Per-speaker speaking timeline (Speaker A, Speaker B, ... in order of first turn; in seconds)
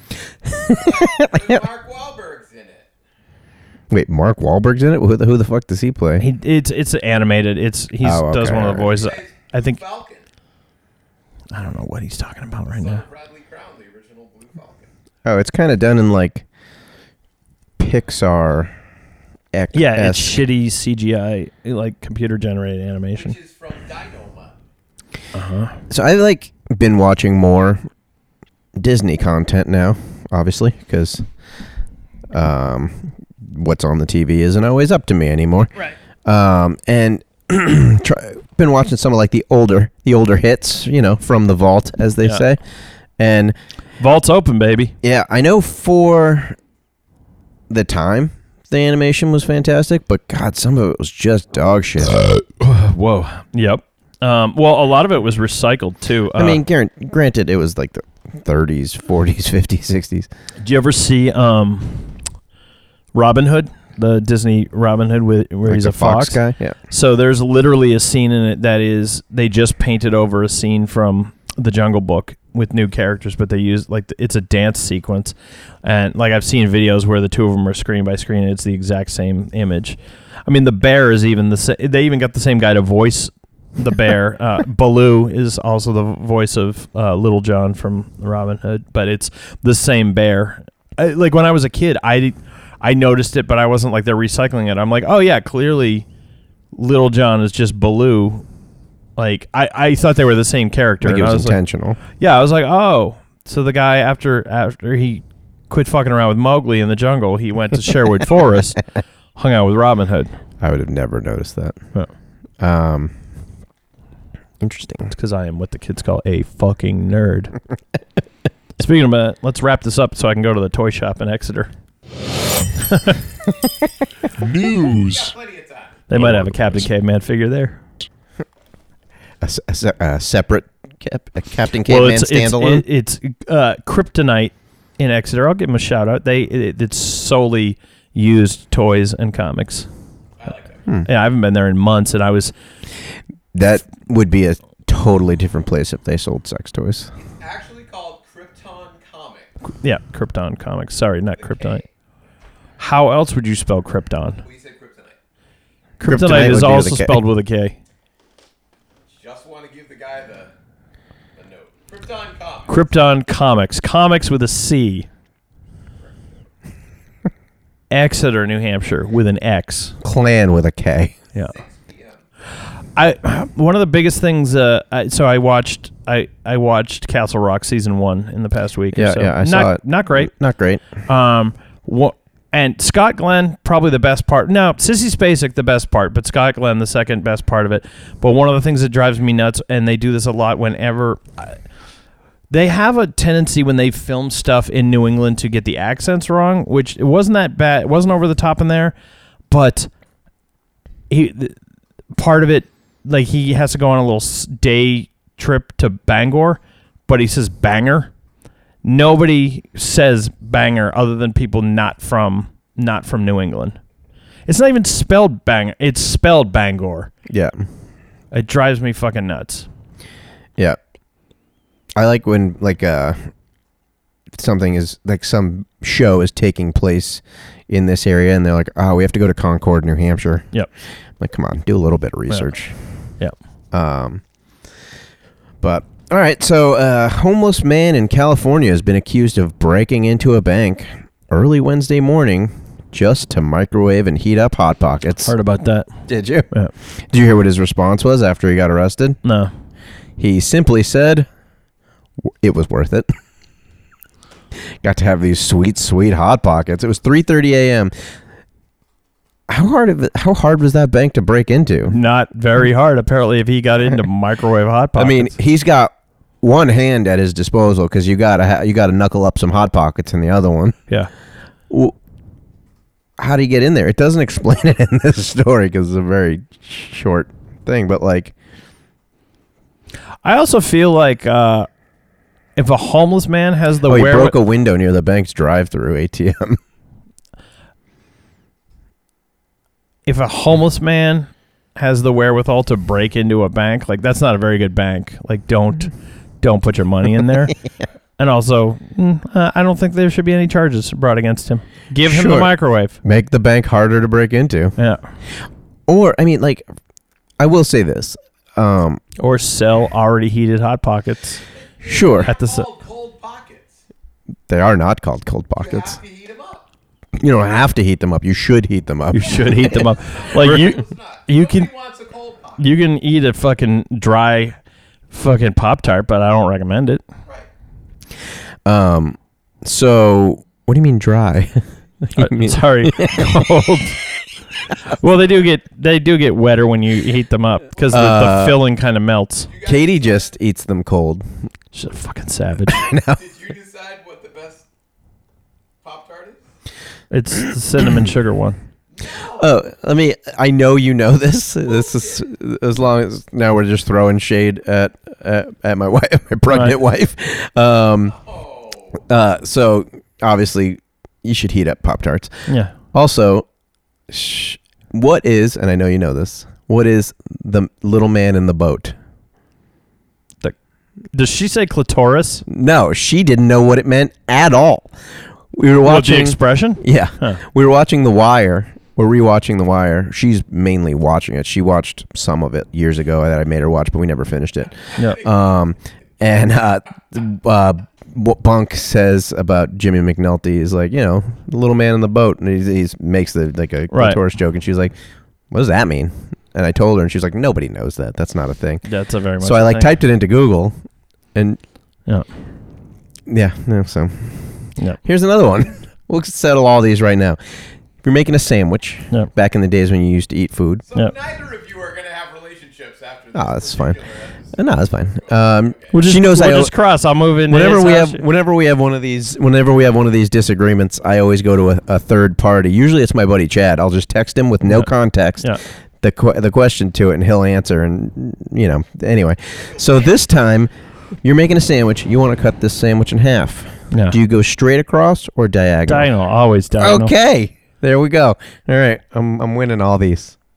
Speaker A: 0.5-1.6, 3.9-6.2, 8.0-9.0, 15.2-16.4, 17.8-18.7, 19.5-20.4, 25.9-27.8, 28.8-31.3, 32.3-35.7, 36.2-42.6, 43.2-43.5, 45.0-46.5, 47.7-52.2, 56.3-60.3, 65.7-66.8, 101.0-102.0, 110.6-111.9, 112.6-113.1, 114.6-115.1, 124.4-125.1, 126.1-126.9, 129.4-132.8, 143.5-147.1, 156.0-157.2, 170.0-171.2, 178.9-180.8, 217.3-217.6, 221.9-223.3, 224.3-230.6, 231.2-232.8, 233.7-234.2, 235.6-245.3, 246.1-249.2, 250.2-251.3, 252.3-253.1, 254.8-258.1, 259.5-261.9, 264.9-270.8, 271.7-271.9, 273.2-278.3, 283.9-286.6, 302.1-306.6, 307.4-309.0, 311.9-312.3, 314.5-316.0, 317.2-320.8, 328.6-334.1, 337.9-338.6, 339.6-341.5, 342.7-343.2, 349.2-358.2, 359.1-363.5, 364.1-368.9, 372.4-374.9, 375.5-394.9, 395.5-398.9, 399.4-400.8, 401.3-401.6, 403.3-410.8, 413.3-414.0, 414.5-416.7, 417.5-430.7, 431.2-436.1, 436.8-440.3
Speaker B: 0.7-2.9, 8.9-10.2, 12.7-14.9, 23.2-24.6, 124.5-126.0, 140.4-140.9, 147.2-149.5, 151.4-151.9, 154.4-155.2, 159.1-160.5, 161.3-162.8, 171.4-172.2, 311.5-313.8, 315.6-316.7, 319.2-322.7, 339.5-340.3, 342.9-344.7, 345.8-346.5, 348.9-349.5, 351.6-352.2, 358.1-359.0, 410.9-415.9, 429.6-430.3
Speaker C: 6.2-9.8, 11.5-13.0, 19.7-23.3, 25.3-25.8, 44.0-44.9, 52.6-56.6, 60.6-62.2, 63.1-96.1, 96.7-98.5, 99.2-110.4, 115.1-117.5, 118.8-121.7, 122.9-123.2, 126.1-127.8, 131.9-139.9, 141.0-142.5, 149.8-151.8, 152.8-154.4, 156.0-157.8, 162.7-165.1, 167.9-169.9, 172.9-180.3, 180.9-191.8, 192.5-198.9, 199.5-199.9, 201.1-201.6, 202.1-208.1, 208.8-213.8, 214.4-217.1, 218.3-219.7, 245.2-245.9, 249.2-249.5, 261.9-265.3, 280.2-281.7, 282.6-284.4, 290.1-297.6, 298.2-302.9, 304.8-305.0, 309.2-311.4, 312.2-312.7, 319.1-321.7, 322.6-324.6, 325.1-327.0, 332.1-334.0, 334.9-339.5, 341.7-342.8, 347.1-348.6, 362.5-362.7, 371.1-372.4, 375.8-377.4, 385.0-385.2, 393.9-394.2, 398.9-399.9, 415.9-418.2, 435.9-437.1